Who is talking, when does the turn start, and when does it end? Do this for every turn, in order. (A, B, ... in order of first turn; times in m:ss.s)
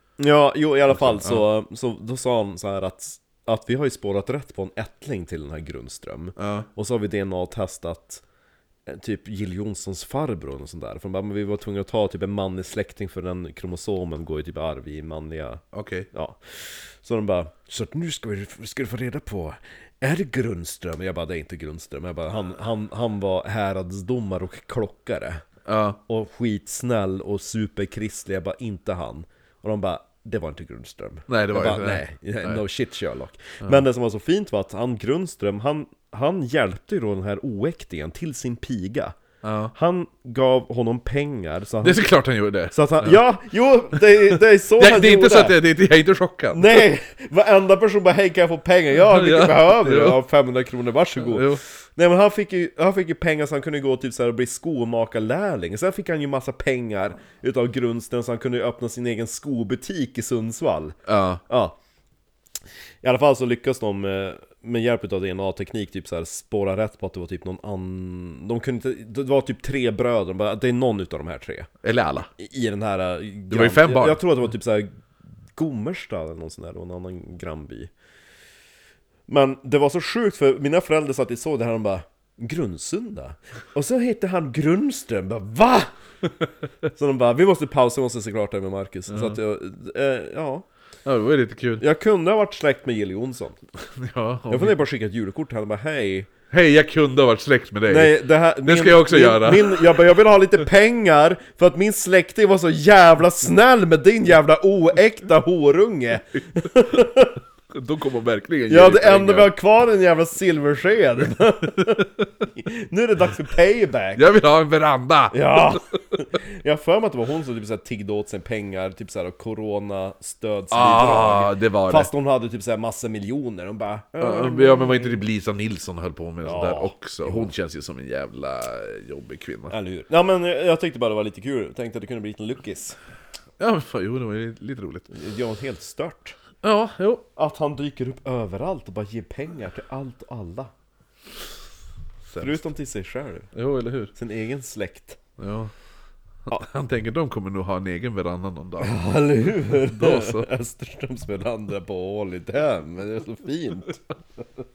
0:00.2-0:08.2 A
0:00.9-0:01.4 B
0:06.4-0:06.7 B
0:08.9-0:25.4 A
0:15.7-0:16.1 B
0:25.6-0:26.0 B
0:26.1-0:39.2 A
0:31.3-0:32.6 B
0:39.4-0:39.7 B
0:39.7-0:42.1 A
0:41.8-0:43.2 B
0:42.7-0:45.6 A
0:43.9-0:46.9 B
0:46.5-1:01.0 A
0:48.9-0:50.2 B
0:51.2-0:51.6 B
1:01.0-1:01.4 B
1:01.5-1:01.8 A
1:03.0-1:11.7 A
1:11.8-1:12.3 B
1:12.4-1:15.0 A
1:13.5-1:14.2 B
1:15.5-1:17.9 A
1:19.3-1:25.9 A
1:26.9-1:30.6 A
1:29.1-1:29.4 B
1:31.0-1:31.8 B
1:31.8-1:33.6 A
1:33.8-1:34.8 B
1:34.5-1:36.3 A
1:36.5-1:40.0 B
1:37.9-1:47.4 A
1:46.5-1:47.0 B
1:47.7-1:49.5 B
1:48.7-1:54.3 A
1:54.2-1:56.2 B
1:55.3-2:05.2 A
2:00.7-2:02.1 B
2:04.2-2:09.7 B
2:06.4-2:07.5 A
2:09.7-2:13.0 A
2:13.6-2:15.1 B
2:15.1-2:16.4 A
2:16.6-2:17.2 B
2:17.4-2:20.7 A
2:22.3-2:22.6 B
2:22.4-2:23.5 A
2:23.5-2:24.1 B
2:24.1-2:25.2 A
2:25.4-2:25.7 B
2:26.5-2:30.5 B
2:28.8-2:34.0 A